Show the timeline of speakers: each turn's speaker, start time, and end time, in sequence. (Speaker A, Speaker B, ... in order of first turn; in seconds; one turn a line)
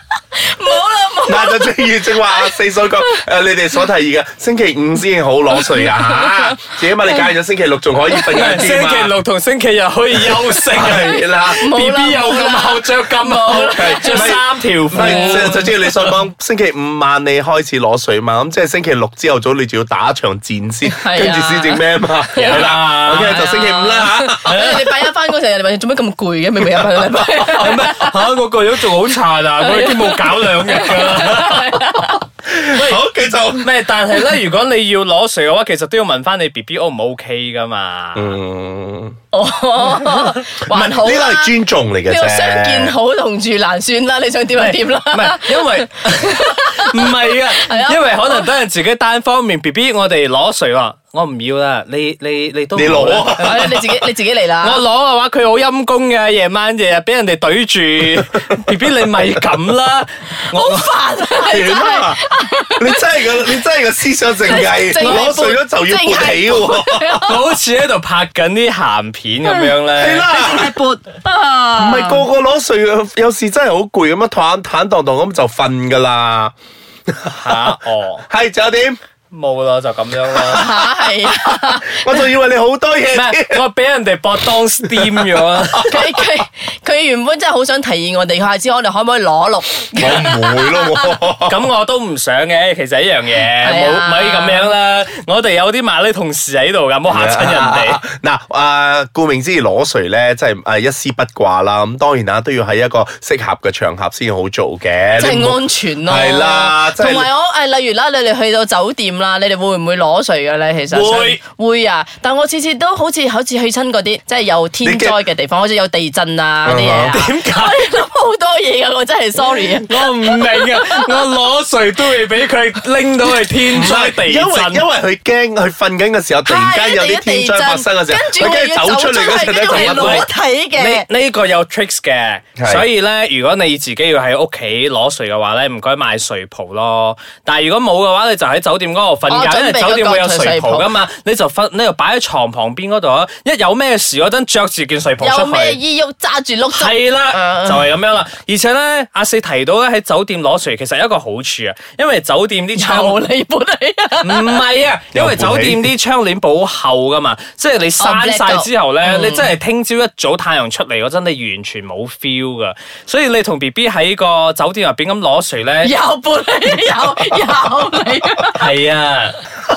Speaker A: 0.3-3.2
Speaker B: 1.3-9.1
Speaker A: 5.7-6.8
Speaker C: 8.1-16.2
Speaker B: 10.7-11.7
Speaker A: 10.8-15.7
Speaker B: 13.7-24.7
Speaker A: 20.9-28.1
Speaker C: 22.4-23.5
Speaker C: 24.4-25.1
Speaker C: 27.3-31.8
Speaker A: 29.6-32.2
Speaker B: 32.5-33.7
Speaker C: 32.7-33.0
Speaker C: 33.6-38.3
Speaker B: 38.1-39.2
Speaker A: 39.3-48.5
Speaker B: 40.6-43.0
Speaker C: 44.5-54.0
Speaker B: 52.8-53.8
Speaker A: 53.4-54.8
Speaker C: 54.6-60.9
Speaker A: 60.5-63.6
Speaker B: 61.4-62.2
Speaker B: 62.8-67.2
Speaker A: 64.5-67.4
Speaker C: 67.2-70.3
Speaker B: 70.0-70.8
Speaker A: 70.3-72.3
Speaker B: 71.8-76.5
Speaker B: 77.1-77.7
Speaker C: 77.3-78.2
Speaker B: 78.3-79.0
Speaker C: 79.3-80.7
Speaker B: 80.3-83.6
Speaker A: 80.5-82.3
Speaker C: 83.1-86.0
Speaker B: 84.8-86.2
Speaker A: 85.8-91.2
Speaker B: 90.0-91.6
Speaker C: 91.5-98.0
Speaker A: 93.6-94.7
Speaker B: 97.1-107.3
Speaker A: 105.2-121.2
Speaker C: 110.9-111.4
Speaker B: 114.8-115.2
Speaker B: 116.7-117.2
Speaker C: 117.1-118.0
Speaker C: 119.5-124.9
Speaker B: 123.7-130.3
Speaker A: 126.5-131.1
Speaker C: 129.7-145.8
Speaker B: 132.6-132.9
Speaker A: 139.3-140.9
Speaker A: 145.2-147.9
Speaker C: 146.7-153.2
Speaker A: 152.8-154.6
Speaker C: 154.2-165.9
Speaker B: 155.1-155.9
Speaker A: 158.0-159.5
Speaker A: 165.8-168.6
Speaker C: 168.5-169.4